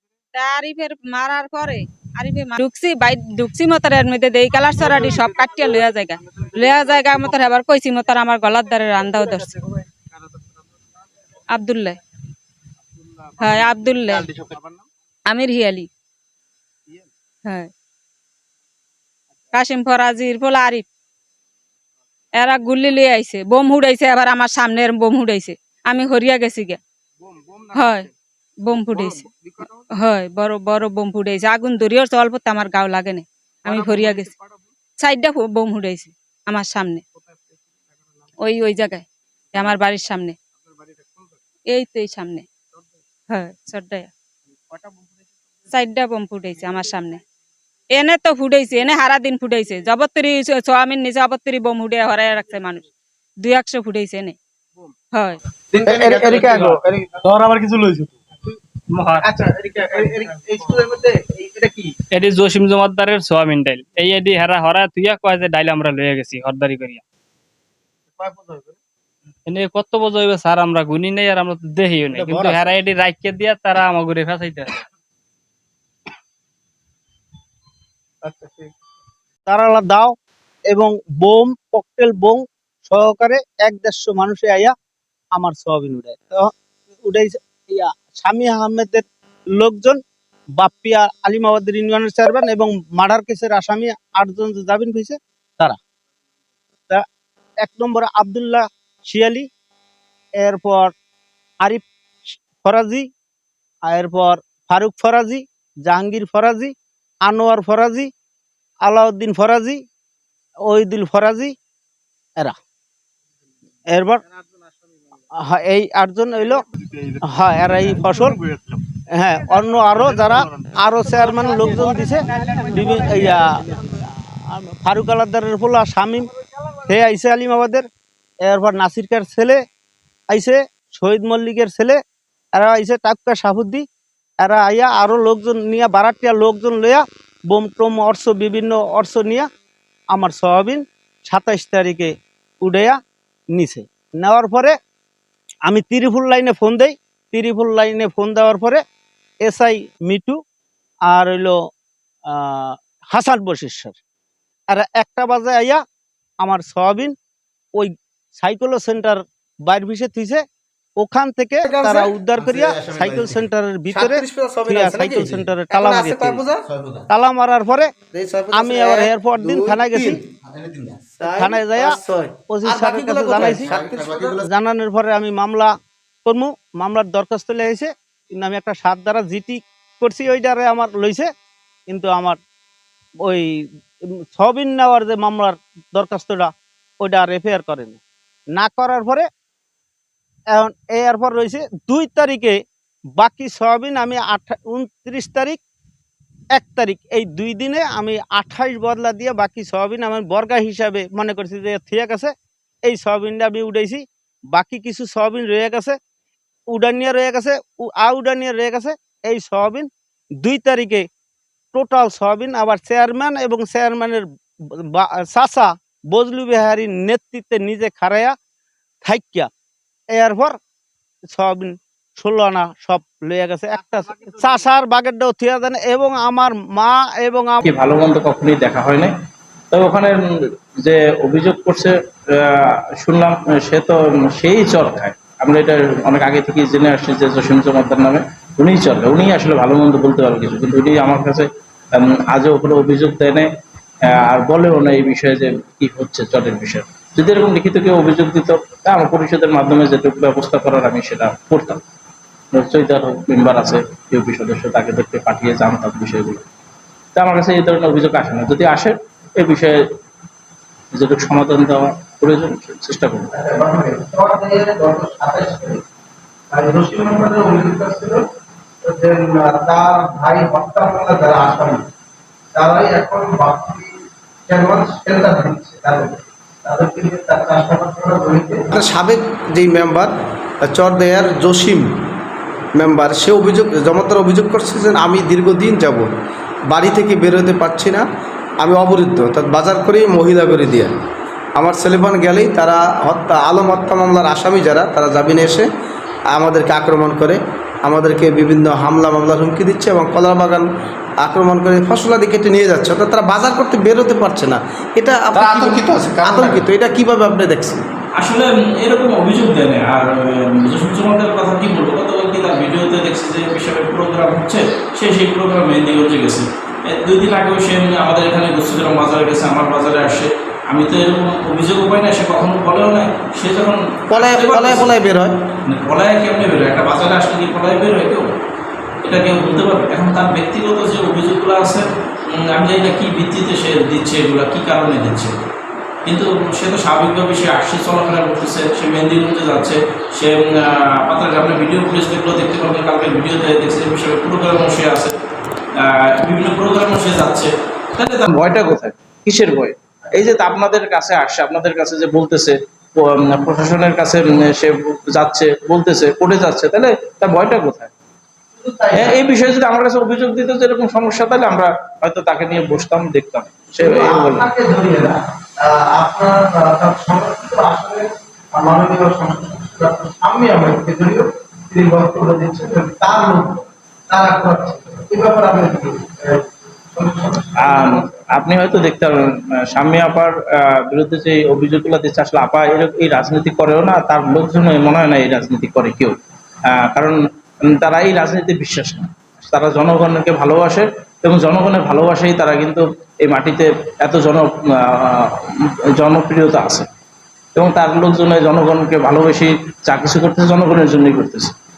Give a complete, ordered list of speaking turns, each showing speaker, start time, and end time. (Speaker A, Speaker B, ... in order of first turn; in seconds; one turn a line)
Speaker A: 0.3-9.6
Speaker B: 6.7-7.1
Speaker A: 11.5-12.0
Speaker A: 13.4-14.3
Speaker B: 14.4-14.7
Speaker A: 15.3-15.9
Speaker A: 17.4-17.7
Speaker A: 19.5-20.9
Speaker A: 22.4-26.8
Speaker B: 27.3-28.0
Speaker A: 27.7-28.1
Speaker A: 28.6-29.3
Speaker B: 28.9-29.8
Speaker A: 29.9-34.3
Speaker B: 33.7-34.3
Speaker A: 35.0-37.0
Speaker A: 38.4-40.4
Speaker A: 41.7-42.5
Speaker A: 43.3-44.1
Speaker A: 45.7-47.2
Speaker A: 47.9-52.9
Speaker A: 53.4-54.4
Speaker A: 55.1-55.4
Speaker B: 55.7-58.2
Speaker C: 55.8-56.8
Speaker D: 58.9-59.3
Speaker B: 59.2-61.9
Speaker D: 62.1-67.0
Speaker B: 68.2-68.8
Speaker D: 69.5-74.8
Speaker B: 78.2-78.7
Speaker E: 79.5-80.2
Speaker E: 80.7-84.8
Speaker E: 85.3-86.5
Speaker E: 87.0-90.0
Speaker E: 90.6-95.8
Speaker E: 97.6-99.5
Speaker E: 100.4-100.9
Speaker E: 102.3-103.1
Speaker E: 103.9-106.7
Speaker E: 107.2-108.1
Speaker E: 108.8-109.8
Speaker E: 110.7-111.5
Speaker E: 113.9-114.2
Speaker E: 115.3-116.6
Speaker E: 117.2-118.4
Speaker E: 119.2-123.5
Speaker E: 124.5-126.3
Speaker E: 126.9-127.9
Speaker E: 128.4-129.6
Speaker E: 130.3-132.0
Speaker E: 132.5-133.9
Speaker E: 134.4-139.5
Speaker E: 140.1-143.0
Speaker E: 143.5-144.8
Speaker E: 145.7-148.8
Speaker E: 149.4-150.4
Speaker E: 151.1-151.6
Speaker E: 152.3-153.9
Speaker E: 154.7-155.8
Speaker E: 156.4-157.2
Speaker E: 157.8-160.4
Speaker E: 161.0-166.5
Speaker C: 161.6-167.1
Speaker E: 167.1-167.9
Speaker C: 168.1-174.5
Speaker E: 168.5-170.2
Speaker E: 171.2-175.7
Speaker E: 176.2-181.3
Speaker E: 181.9-182.4
Speaker E: 183.3-183.6
Speaker E: 184.3-188.0
Speaker E: 188.5-189.3
Speaker E: 190.5-192.6
Speaker E: 193.2-195.6
Speaker E: 196.5-206.0
Speaker E: 206.7-209.9
Speaker E: 210.4-211.1
Speaker E: 211.7-214.2
Speaker E: 214.9-218.3
Speaker E: 219.0-219.5
Speaker E: 220.1-220.6
Speaker E: 221.3-227.7
Speaker B: 223.9-224.6
Speaker F: 227.6-229.1
Speaker F: 229.7-230.2
Speaker F: 230.8-243.5
Speaker F: 244.1-251.8
Speaker F: 252.5-256.4
Speaker F: 257.1-259.8
Speaker F: 260.9-263.3
Speaker B: 263.3-265.8
Speaker B: 266.5-268.2
Speaker B: 268.8-271.8
Speaker B: 272.5-273.9
Speaker B: 274.5-278.7
Speaker C: 278.7-281.9
Speaker C: 282.8-286.1
Speaker C: 286.7-288.0
Speaker C: 288.6-290.9
Speaker C: 291.6-295.7
Speaker C: 296.3-300.7
Speaker C: 301.2-307.8
Speaker F: 308.2-324.9
Speaker C: 324.1-325.3
Speaker F: 325.7-328.3
Speaker F: 329.0-335.3
Speaker F: 336.1-345.1
Speaker F: 345.8-357.9
Speaker B: 358.6-359.2
Speaker F: 358.9-364.5
Speaker B: 363.8-378.1
Speaker F: 377.6-386.2
Speaker F: 386.7-396.9
Speaker F: 397.6-401.5